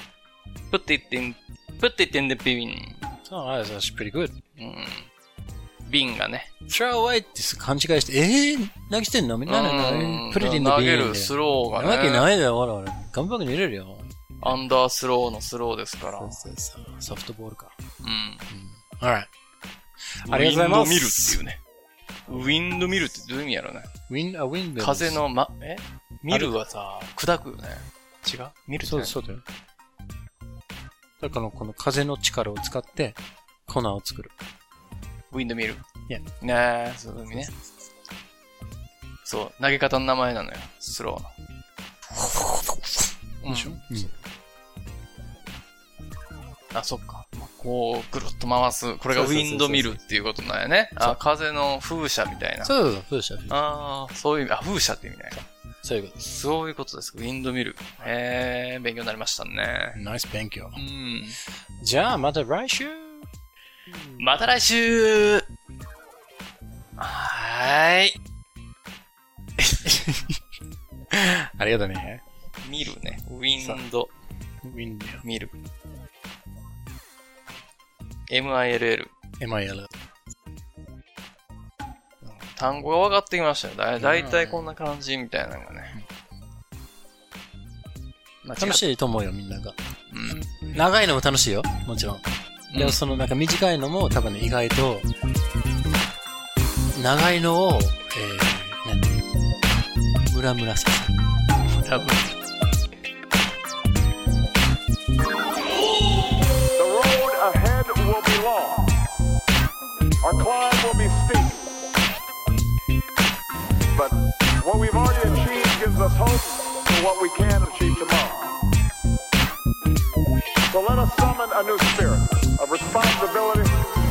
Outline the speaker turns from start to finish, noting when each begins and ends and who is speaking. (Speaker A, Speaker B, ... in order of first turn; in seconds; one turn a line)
Speaker A: 0.7-3.0
Speaker B: 3.2-4.3
Speaker A: 4.6-5.1
Speaker A: 5.8-6.5
Speaker B: 6.7-14.7
Speaker A: 9.5-12.3
Speaker A: 14.4-16.4
Speaker B: 16.0-17.7
Speaker A: 18.0-18.4
Speaker B: 18.5-19.3
Speaker B: 20.2-21.4
Speaker A: 20.3-21.6
Speaker A: 22.3-23.9
Speaker B: 24.1-25.2
Speaker A: 24.8-29.2
Speaker B: 26.3-26.6
Speaker B: 28.8-29.4
Speaker B: 31.2-34.3
Speaker A: 35.3-35.8
Speaker A: 36.4-37.5
Speaker A: 39.2-41.3
Speaker B: 42.1-44.1
Speaker A: 43.4-44.1
Speaker A: 46.7-52.7
Speaker B: 49.1-50.0
Speaker B: 51.0-51.2
Speaker B: 52.6-53.6
Speaker A: 53.5-55.4
Speaker B: 55.3-56.2
Speaker A: 56.2-60.0
Speaker B: 59.9-60.8
Speaker A: 60.7-61.4
Speaker B: 61.8-63.3
Speaker B: 63.9-64.2
Speaker A: 64.2-65.4
Speaker A: 67.0-68.1
Speaker B: 69.7-70.4
Speaker B: 71.1-72.2
Speaker A: 72.6-74.1
Speaker B: 74.6-75.2
Speaker A: 75.2-75.5
Speaker A: 78.3-79.1
Speaker B: 79.4-79.9
Speaker A: 82.2-86.0
Speaker B: 84.0-84.7
Speaker A: 88.4-88.8
Speaker B: 88.5-89.8
Speaker A: 90.1-90.5
Speaker B: 90.7-95.1
Speaker A: 92.7-93.0
Speaker B: 96.9-99.2
Speaker B: 100.2-101.2
Speaker A: 101.8-102.3
Speaker C: 106.8-108.9
Speaker C: 110.2-111.7
Speaker C: 113.9-118.6
Speaker C: 120.7-123.8